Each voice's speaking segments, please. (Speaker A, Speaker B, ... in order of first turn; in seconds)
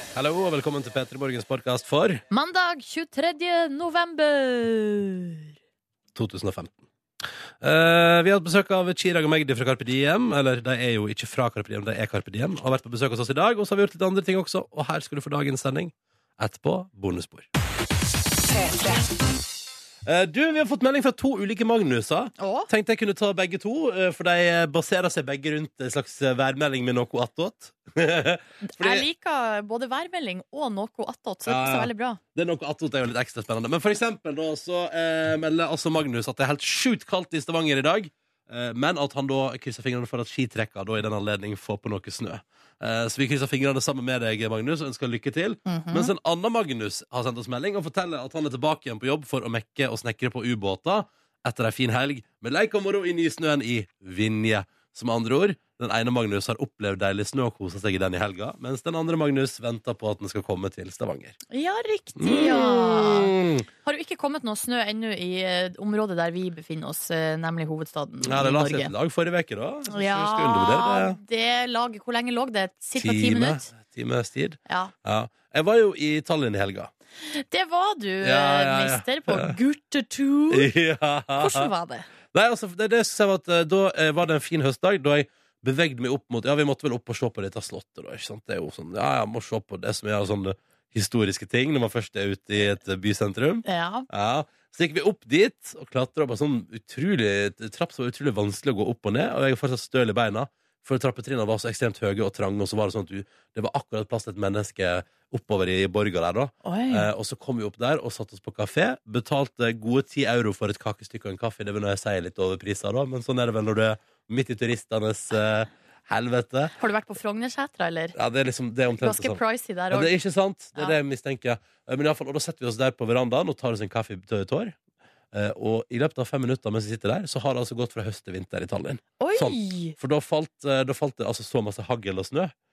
Speaker A: 0.1-2.2, 6.2-6.8, 7.6-17.5, 20.1-29.1, 31.5-61.4, 62.2-63.7, 68.2-71.2, 73.0-76.9, 78.2-79.6, 80.5-81.7, 82.3-116.7, 118.2-124.8, 125.3-132.5
Speaker B: 2.3-5.5, 22.4-22.7, 28.6-32.2, 45.7-46.1, 61.5-68.9, 69.9-73.7, 74.7-74.9, 77.3-80.7, 81.4-82.1, 93.7-94.1, 106.6-107.1, 116.8-118.2, 119.0-120.1, 129.2-129.9